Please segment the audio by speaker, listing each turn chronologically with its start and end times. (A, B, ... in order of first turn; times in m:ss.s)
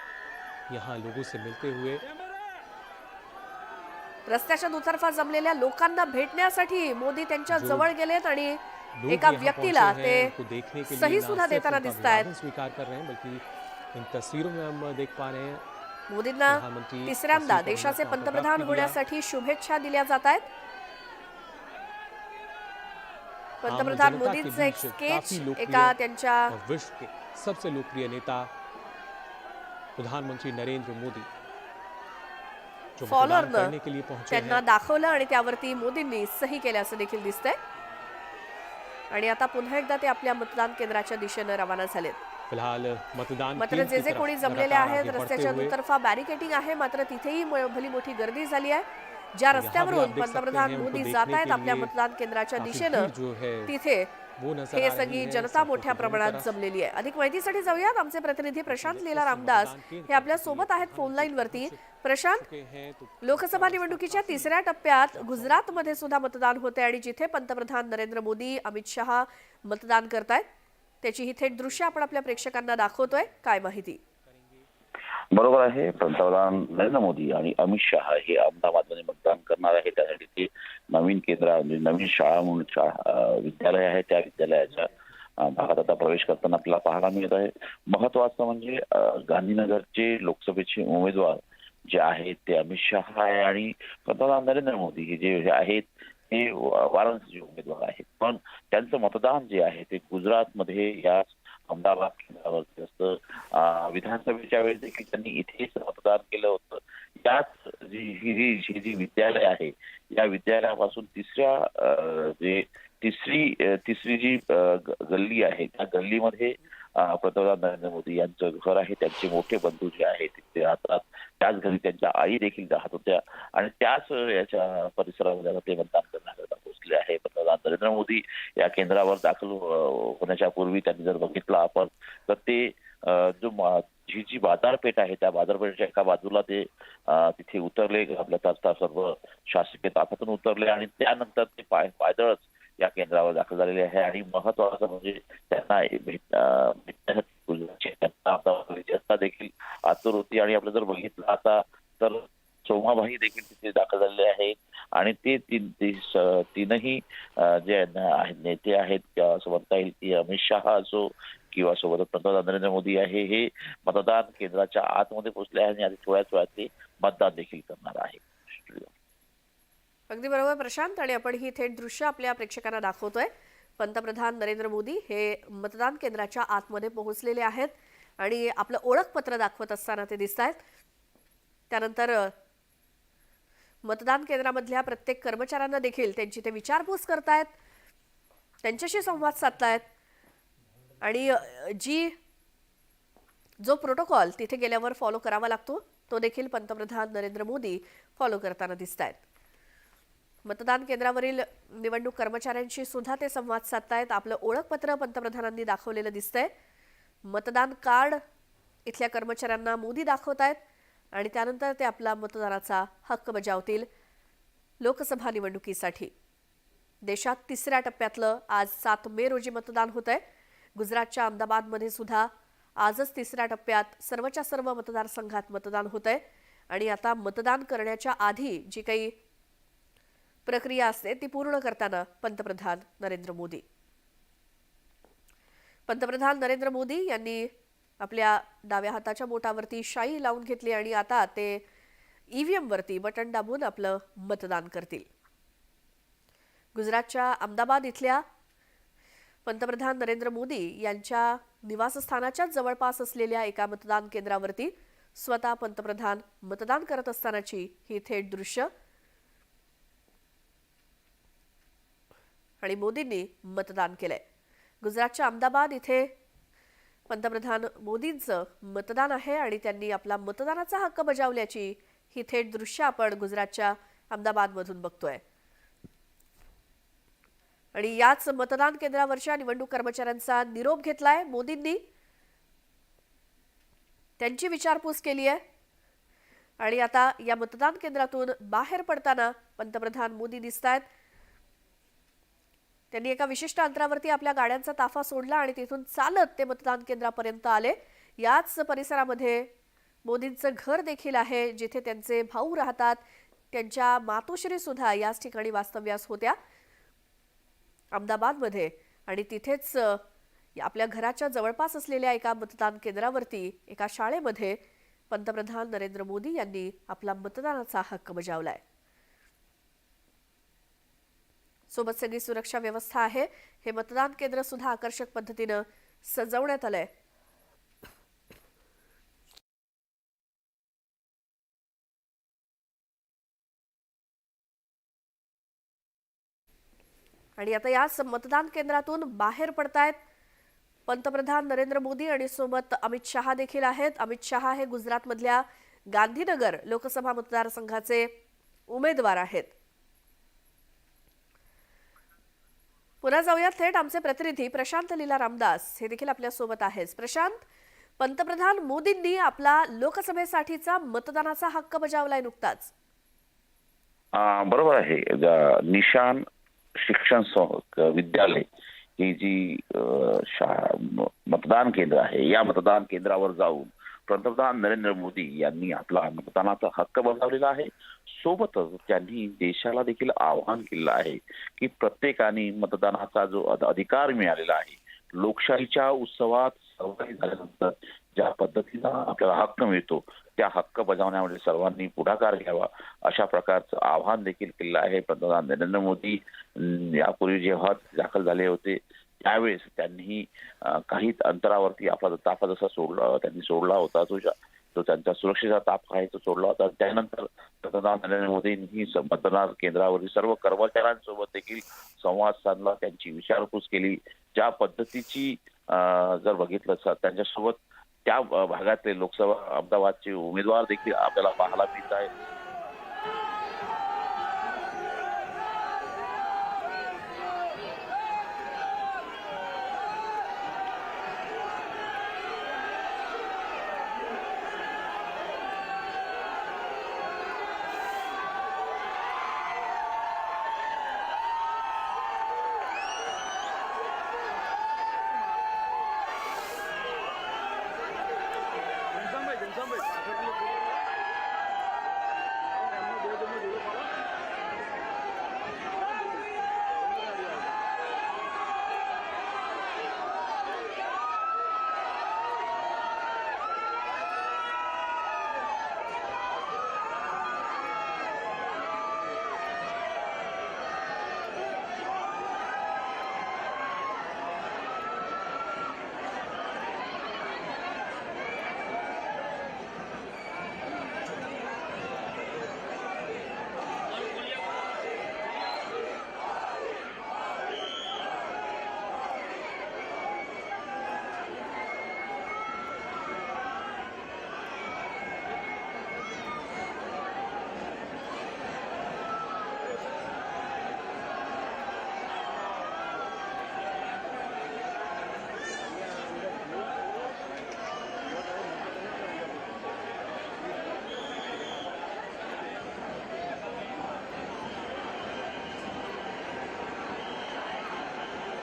0:00.7-0:02.1 A
0:04.3-0:10.4 B
0:07.5-0:07.9 A
0:09.0-0:15.6 A
0:10.9-0:12.3 B
0:16.1-0:20.5 B
0:16.5-0:19.0 A
0:23.6-0:26.6 B
0:23.7-0:26.0 A
0:26.5-0:28.5 A
0:30.0-0:31.3 A
0:33.0-0:34.6 A
0:33.1-0:33.8 B
0:34.3-0:37.6 B
0:39.1-0:42.2 B
0:42.5-0:45.8 A
0:43.6-0:53.1 B
0:49.5-0:51.9 A
0:52.6-0:53.7 A
0:53.7-0:54.1 B
0:54.4-0:56.6 A
0:54.7-1:02.5 B
0:58.7-1:04.6 A
1:03.2-1:10.5 B
1:05.1-1:06.1 A
1:11.0-1:14.0 B
1:11.4-1:14.7 A
1:15.3-2:48.9 C
2:50.1-3:00.6 B
3:01.7-3:02.3 B
3:03.8-3:07.5 B
3:08.6-3:09.9 B
3:11.0-3:12.2 B
3:13.6-3:19.2 B
3:20.4-3:26.5 B
3:27.2-3:28.2 B
3:28.9-3:30.6 B
3:31.1-3:33.9 B
3:34.8-3:36.1 B
3:37.0-3:40.2 B
3:40.8-3:42.3 B
3:42.8-3:49.2 B
3:50.5-3:53.6 B
3:55.9-4:01.6 B
4:02.3-4:05.1 B
4:06.7-4:08.2 B
4:09.5-4:18.7 B
4:22.6-4:24.2 B
4:24.8-4:26.2 B
4:27.1-4:35.2 B
4:37.7-4:41.8 B
4:44.2-4:45.4 B
4:46.6-4:50.9 B
4:52.9-4:59.5 B
5:00.0-5:06.4 B
5:07.9-5:10.0 B
5:10.6-5:18.6 B
5:21.7-5:26.9 B
5:37.4-5:40.0 B
5:40.9-5:48.1 B
5:48.7-5:49.5 B
5:53.0-5:57.4 B
5:58.0-6:02.7 B
6:04.1-6:06.2 C
6:06.8-6:08.4 C
6:09.0-7:02.1 C